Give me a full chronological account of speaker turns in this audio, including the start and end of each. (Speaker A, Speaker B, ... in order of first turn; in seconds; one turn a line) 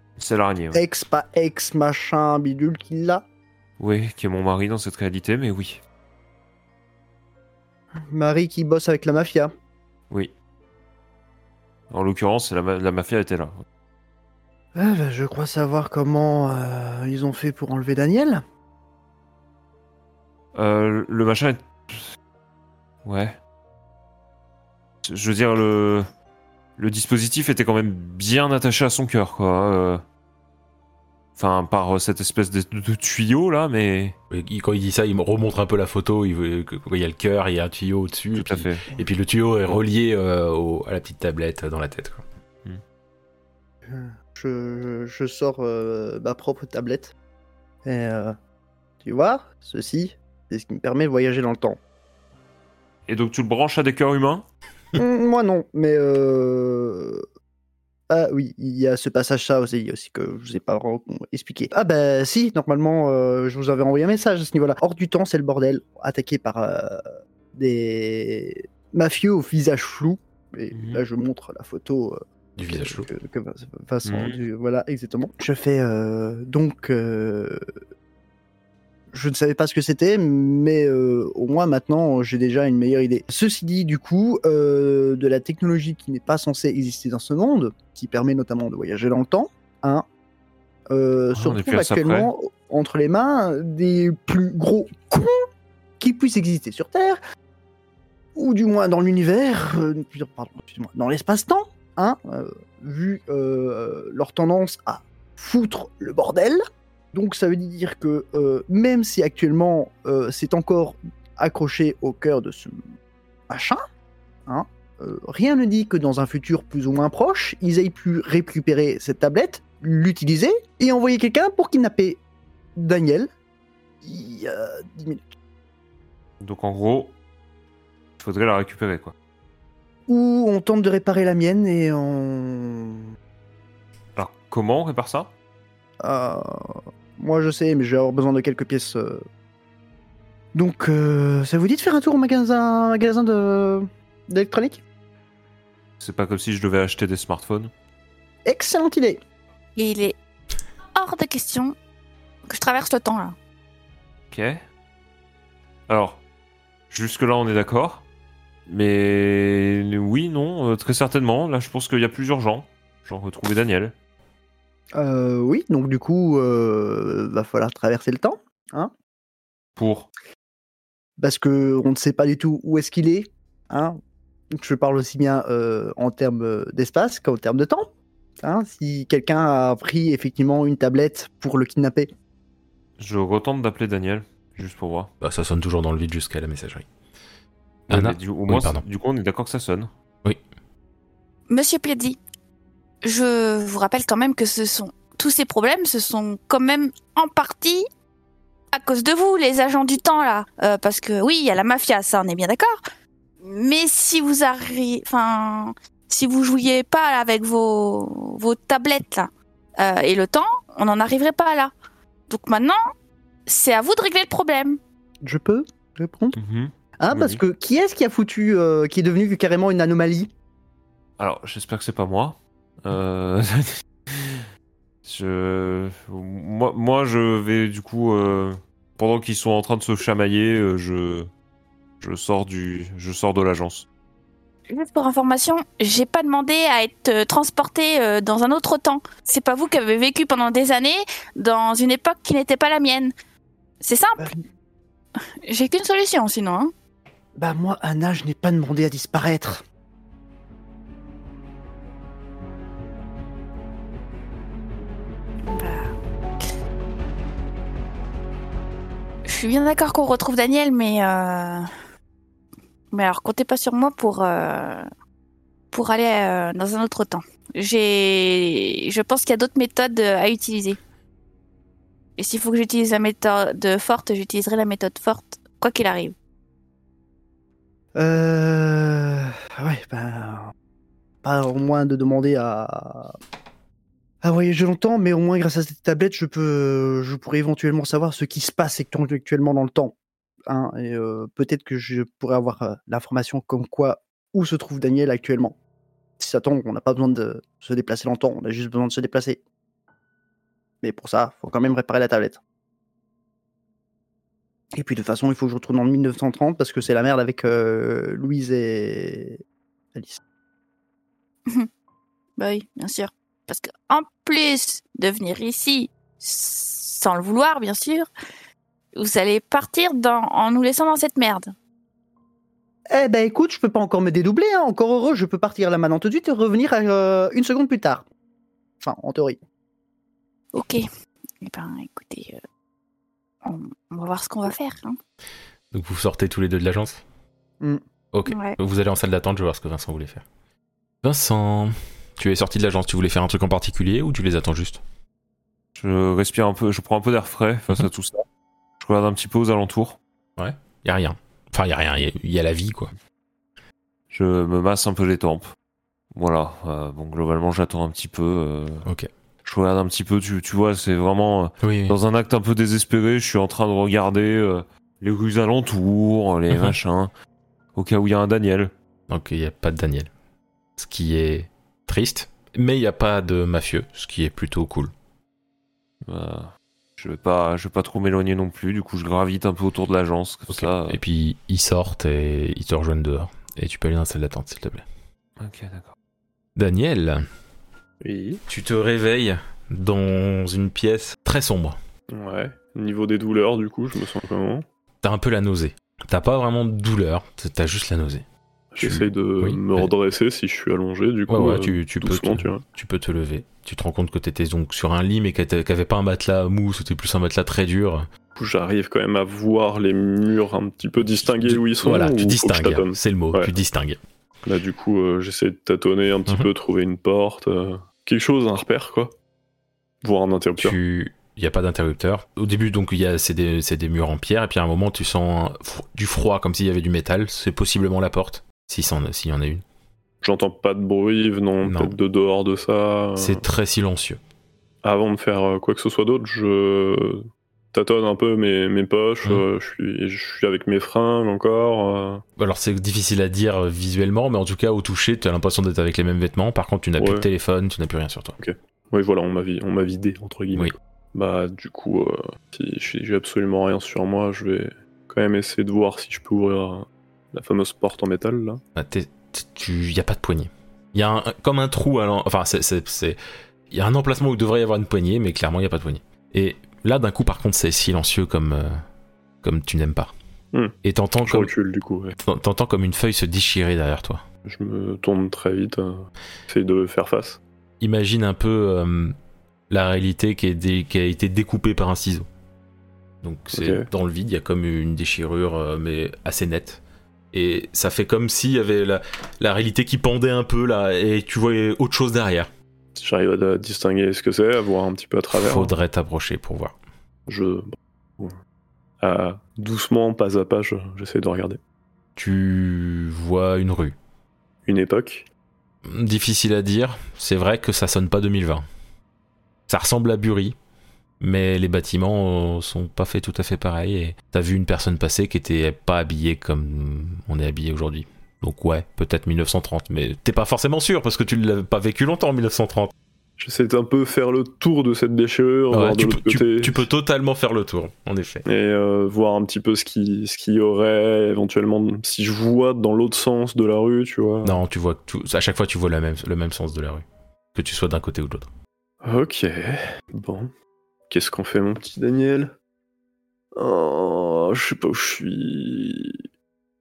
Speaker A: 0.2-0.8
Speaker B: 0.7-3.2
Speaker A: 3.8-5.8
Speaker B: 8.0-9.5
Speaker A: 11.9-13.6
Speaker B: 14.7-18.4
Speaker A: 20.5-22.1
Speaker A: 23.0-23.4
Speaker A: 25.0-26.1
Speaker A: 26.8-30.0
Speaker A: 31.4-34.2
Speaker C: 34.3-42.2
Speaker A: 38.3-38.8
Speaker B: 43.9-47.1
Speaker B: 47.8-48.3
Speaker B: 49.0-51.8
Speaker A: 53.1-54.5
Speaker B: 54.9-57.2
Speaker B: 58.1-67.0
Speaker B: 67.5-77.6
Speaker A: 70.7-71.0
Speaker C: 72.6-73.1
Speaker A: 74.0-74.4
Speaker B: 79.1-90.0
Speaker B: 90.9-95.3
Speaker A: 91.3-92.3
Speaker B: 96.0-97.2
Speaker B: 98.3-106.6
Speaker B: 107.1-112.8
Speaker B: 113.5-113.8
Speaker B: 114.5-122.2
Speaker B: 122.8-123.3
Speaker B: 124.0-125.2
Speaker A: 126.4-127.1
Speaker A: 128.2-129.1
Speaker B: 130.1-133.1
Speaker A: 134.2-135.3
Speaker B: 136.0-139.2
Speaker B: 140.5-144.8
Speaker A: 146.0-147.7
Speaker B: 148.4-149.2
Speaker D: 149.8-150.2
Speaker D: 150.9-151.7
Speaker D: 152.5-153.3
Speaker A: 154.3-154.6
Speaker A: 155.9-156.2
Speaker A: 156.9-158.0
Speaker A: 158.7-163.9
Speaker B: 164.9-168.9
Speaker A: 169.8-170.1
Speaker B: 171.2-174.0
Speaker B: 174.5-182.1
Speaker A: 183.0-185.1
Speaker C: 185.2-186.8
Speaker A: 187.9-189.9
Speaker C: 187.9-188.8
Speaker D: 191.5-192.2
Speaker D: 193.0-197.8
Speaker D: 198.7-202.7
Speaker D: 203.4-211.7
Speaker D: 212.3-212.8
Speaker D: 213.5-214.8
Speaker B: 215.2-216.4
Speaker A: 216.3-217.4
Speaker B: 217.0-220.3
Speaker A: 221.2-224.4
Speaker A: 225.0-231.3
Speaker A: 232.0-233.8
Speaker D: 234.7-243.1
Speaker D: 243.8-244.3
Speaker D: 245.5-246.7
Speaker B: 247.3-249.6
Speaker D: 255.5-256.5
Speaker D: 259.2-261.7
Speaker D: 262.9-264.8
Speaker D: 265.7-270.8
Speaker D: 272.2-276.1
Speaker B: 277.9-280.5
Speaker B: 281.2-283.2
Speaker B: 284.2-289.9
Speaker B: 290.5-295.6
Speaker B: 296.2-299.4
Speaker B: 300.8-302.4
Speaker B: 304.7-309.4
Speaker B: 309.9-310.2
Speaker D: 312.4-318.1
Speaker D: 318.9-321.5
Speaker B: 322.9-328.0
Speaker B: 328.8-329.4
Speaker D: 330.5-330.8
Speaker D: 331.4-332.4
Speaker D: 333.4-335.0
Speaker C: 335.7-337.0
Speaker C: 338.1-340.2
Speaker D: 338.3-338.6
Speaker C: 341.0-344.8
Speaker A: 345.8-348.2
Speaker A: 348.8-350.0
Speaker C: 350.4-352.9
Speaker A: 354.1-355.5
Speaker A: 356.1-358.9
Speaker A: 359.4-367.1
Speaker C: 361.6-361.9
Speaker A: 367.7-368.7
Speaker C: 369.1-370.1
Speaker C: 370.8-374.9
Speaker A: 376.0-381.0
Speaker C: 380.5-384.8
Speaker A: 385.4-385.9
Speaker C: 386.6-387.2
Speaker E: 388.0-388.4
Speaker C: 388.5-391.8
Speaker E: 392.1-394.6
Speaker C: 395.0-398.2
Speaker E: 398.7-402.6
Speaker C: 398.8-399.9
Speaker C: 401.3-408.1
Speaker E: 408.4-413.5
Speaker C: 411.4-414.0
Speaker E: 414.4-419.1
Speaker E: 420.0-420.8
Speaker C: 420.6-429.6
Speaker E: 430.2-433.4
Speaker C: 431.6-431.9
Speaker C: 433.2-434.2
Speaker E: 434.8-442.2
Speaker C: 442.4-448.4
Speaker E: 447.0-447.3
Speaker E: 448.4-458.6
Speaker C: 458.7-463.2
Speaker C: 463.7-468.8
Speaker C: 469.4-470.1
Speaker C: 470.8-471.5
Speaker E: 471.3-472.1
Speaker C: 472.2-474.2
Speaker E: 474.4-477.4
Speaker C: 477.8-479.1
Speaker C: 479.7-482.2
Speaker C: 483.2-486.8
Speaker E: 483.5-483.9
Speaker C: 487.3-492.5
Speaker E: 492.9-495.7
Speaker C: 495.3-496.8
Speaker E: 497.3-498.3
Speaker E: 499.0-501.6
Speaker C: 502.1-503.9
Speaker E: 504.6-505.3
Speaker C: 505.9-508.6
Speaker C: 509.7-510.6
Speaker C: 511.2-522.9
Speaker E: 523.4-526.8
Speaker C: 525.7-528.4
Speaker E: 528.5-534.6
Speaker C: 534.4-538.5
Speaker E: 539.0-540.5
Speaker E: 541.1-542.5
Speaker E: 543.5-546.2